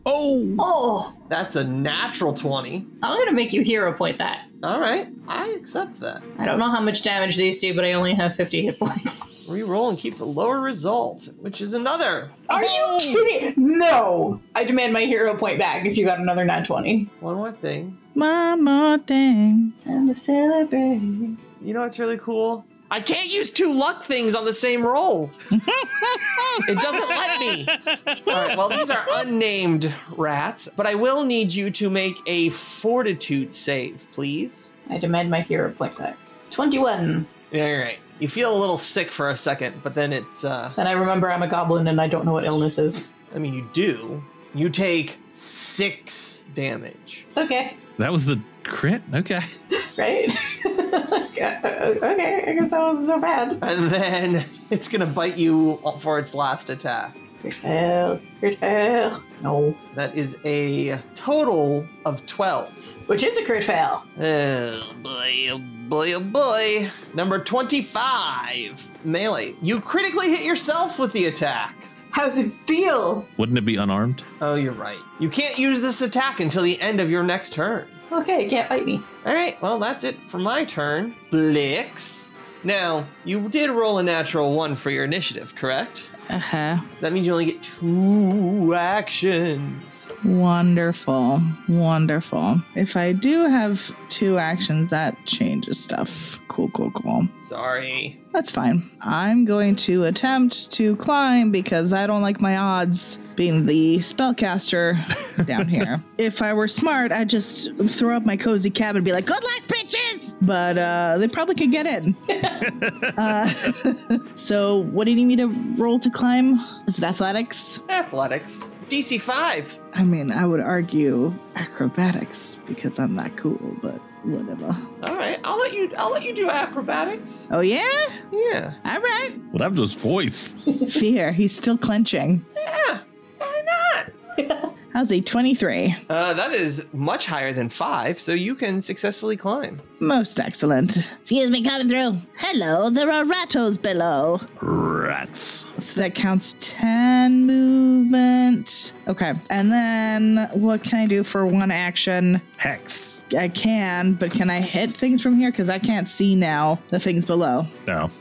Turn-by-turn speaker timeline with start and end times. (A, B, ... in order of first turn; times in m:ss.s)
0:00.6-0:01.1 A
0:01.3-0:02.9 B
0:03.0-0:04.5 A
0:04.6-0:06.2 B
0:06.4-0:09.3 A
0:09.4-0:12.5 B
0:12.5-0:17.1 A
0:12.5-0:13.2 C
0:17.2-0:18.0 B
0:18.1-0:19.7 C
0:19.8-0:21.4 A
0:21.6-0:25.3 B
0:25.5-0:26.7 C
0:26.6-0:34.7 B
0:28.3-0:28.6 C
0:34.9-0:37.3 A
0:37.5-0:40.8 B
0:40.8-0:43.1 A
0:43.3-0:47.3 B
0:47.3-0:47.8 A
0:48.0-0:49.5 D
0:49.7-0:53.6 A
0:53.6-0:57.2 B
0:57.4-0:59.8 A
0:59.9-1:03.0 B
1:03.1-1:04.0 A
1:04.2-1:11.9 B
1:12.1-1:13.3 A
1:13.4-1:14.2 D
1:14.4-1:18.0 B
1:18.1-1:19.0 A
1:19.2-1:26.1 B
1:26.3-1:26.8 C
1:26.9-1:30.1 B
1:30.2-1:37.3 C
1:37.4-1:38.2 B
1:38.3-1:52.4 C
1:52.6-1:53.1 D
1:53.1-1:57.8 C
1:57.9-1:59.8 B
1:59.9-2:04.8 C
2:05.0-2:07.5 B
2:07.5-2:08.2 C
2:08.3-2:08.8 B
2:08.8-2:09.4 C
2:09.5-2:10.6 D
2:10.8-2:12.4 C
2:12.6-2:14.1 B
2:14.4-2:14.7 A
2:14.9-2:16.0 C
2:16.1-2:19.8 B
2:20.0-2:24.5 C
2:24.6-2:25.7 D
2:25.8-2:32.4 C
2:32.6-2:33.2 D
2:33.3-2:37.7 C